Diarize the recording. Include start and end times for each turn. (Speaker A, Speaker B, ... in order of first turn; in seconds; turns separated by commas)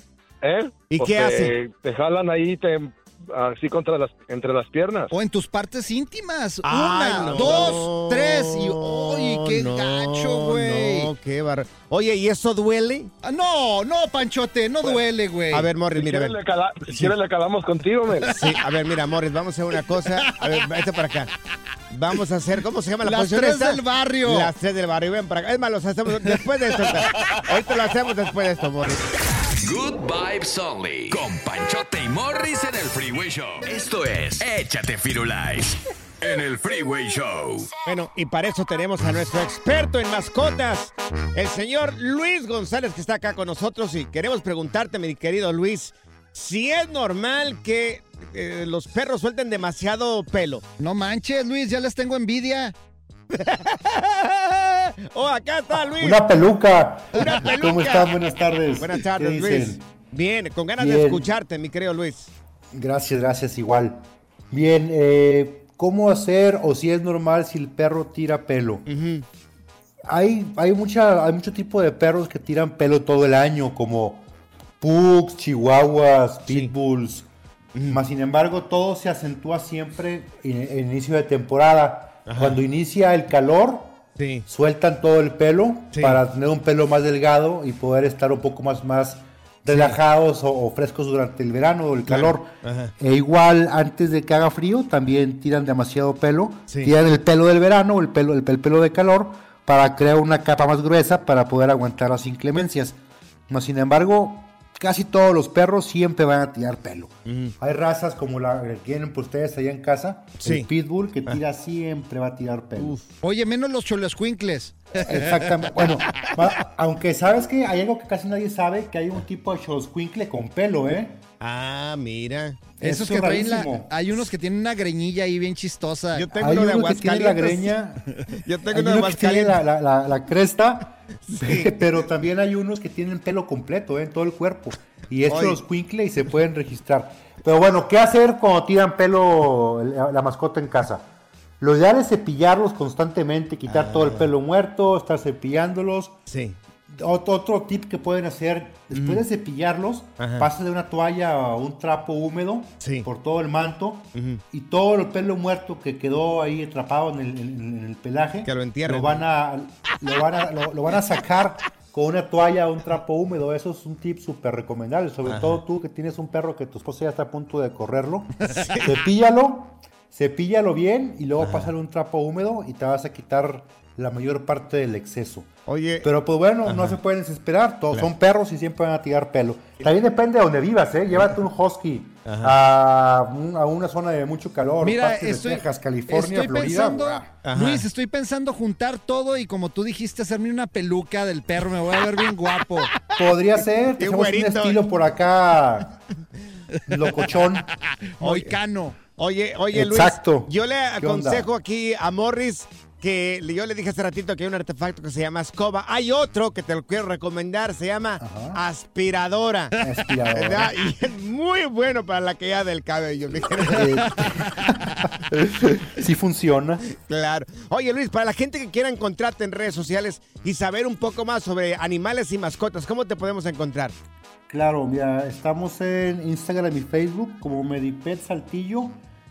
Speaker A: 0.4-5.1, Speaker B: 0.9-1.5, Speaker C: 5.1-11.1, Speaker B: 6.6-13.1, Speaker A: 7.2-7.6, Speaker C: 13.2-15.7, Speaker B: 15.5-16.4, Speaker A: 15.9-18.3, Speaker B: 16.9-17.1, Speaker B: 18.2-21.3, Speaker C: 20.1-20.3, Speaker B: 21.9-29.1, Speaker C: 23.0-24.5, Speaker D: 29.6-37.8, Speaker B: 37.9-50.6, Speaker C: 50.8-52.7, Speaker B: 53.3-56.2, Speaker E: 55.9-59.9, Speaker B: 57.1-58.2, Speaker B: 58.8-62.3, Speaker E: 60.8-61.3, Speaker E: 62.7-68.8, Speaker B: 68.8-69.2, Speaker E: 70.1-74.2, Speaker E: 74.8-77.3, Speaker B: 76.5-76.7, Speaker B: 77.7-78.0, Speaker E: 77.9-103.0, Speaker B: 82.2-82.6, Speaker B: 84.2-84.5, Speaker B: 85.9-86.2, Speaker B: 89.7-90.0, Speaker B: 92.1-92.9, Speaker B: 96.7-96.9, Speaker E: 103.5-113.0, Speaker B: 107.2-107.5, Speaker B: 110.4-110.7, Speaker C: 113.2-115.3, Speaker E: 115.0-121.2, Speaker B: 115.8-116.3, Speaker B: 121.4-122.7, Speaker E: 122.8-123.9, Speaker C: 122.8-126.3, Speaker B: 126.1-127.8, Speaker E: 126.3-128.0, Speaker B: 128.4-129.6, Speaker E: 128.7-141.0, Speaker B: 131.3-131.8, Speaker B: 135.3-135.6, Speaker E: 141.6-146.1, Speaker B: 143.7-144.3, Speaker B: 146.3-146.6, Speaker E: 146.9-175.5, Speaker B: 148.9-149.2, Speaker B: 150.2-150.5, Speaker B: 152.8-153.1, Speaker B: 154.1-154.4, Speaker B: 158.4-159.2, Speaker B: 165.3-165.6, Speaker B: 168.5-169.0, Speaker B: 171.4-171.7, Speaker B: 175.7-176.1, Speaker E: 176.0-187.3, Speaker B: 176.7-177.0, Speaker B: 181.1-181.4, Speaker B: 182.2-182.6, Speaker C: 184.8-192.9, Speaker B: 187.4-187.8, Speaker E: 193.2-196.0, Speaker B: 194.0-194.8, Speaker E: 196.9-197.7, Speaker C: 198.2-199.0, Speaker B: 198.2-198.6, Speaker B: 199.2-214.3, Speaker E: 199.7-201.5, Speaker E: 208.2-208.6, Speaker E: 209.8-210.7, Speaker E: 213.7-214.7, Speaker E: 215.4-216.8, Speaker B: 216.9-223.9, Speaker E: 224.5-229.0